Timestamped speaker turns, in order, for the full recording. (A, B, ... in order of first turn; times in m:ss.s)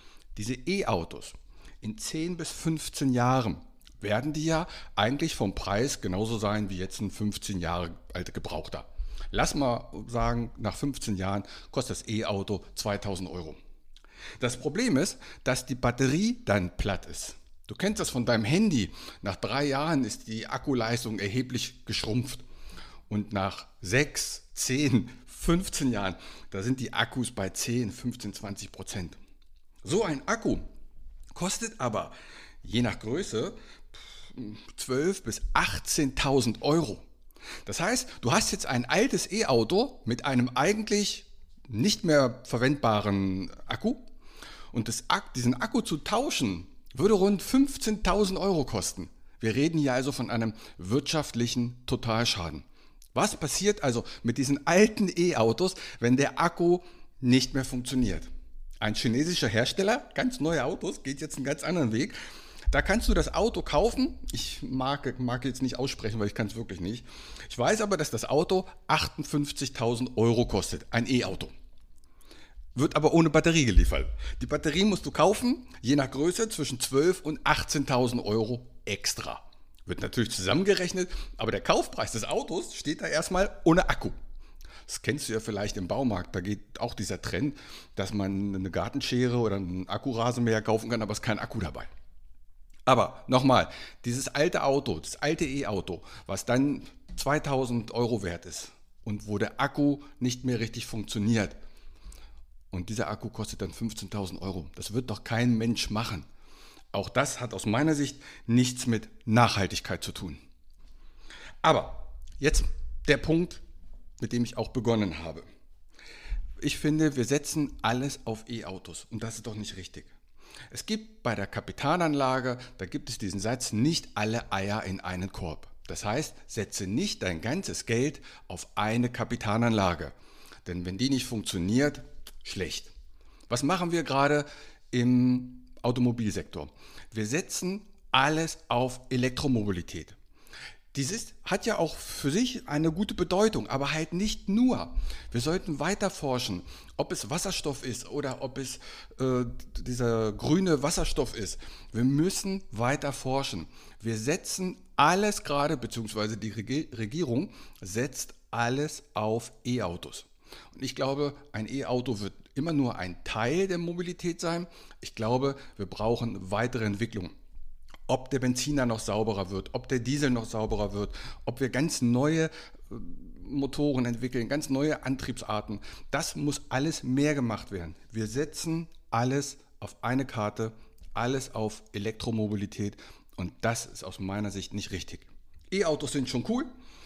0:00.4-0:13.6 A
0:14.4-0:22.4 A
0:23.1-0:29.2 A
0:29.8-0:30.7 A
0:31.3-0:33.6 A
0:34.3-0:37.0 A
0:37.6-0:44.1 A
0:44.7-0:58.3 A
0:58.8-1:02.2 A
1:02.7-1:11.5 A
1:12.8-1:24.2 A
1:24.9-1:31.9 A
1:32.9-1:41.6 A
1:42.7-1:46.3 A
1:46.9-1:50.4 A
1:51.6-1:53.6 A
1:54.2-1:55.4 A
1:56.6-2:00.1 A
2:00.7-2:10.1 A
2:10.6-2:12.9 A
2:13.5-2:20.2 A
2:20.9-2:47.3 A
2:48.1-3:06.7 A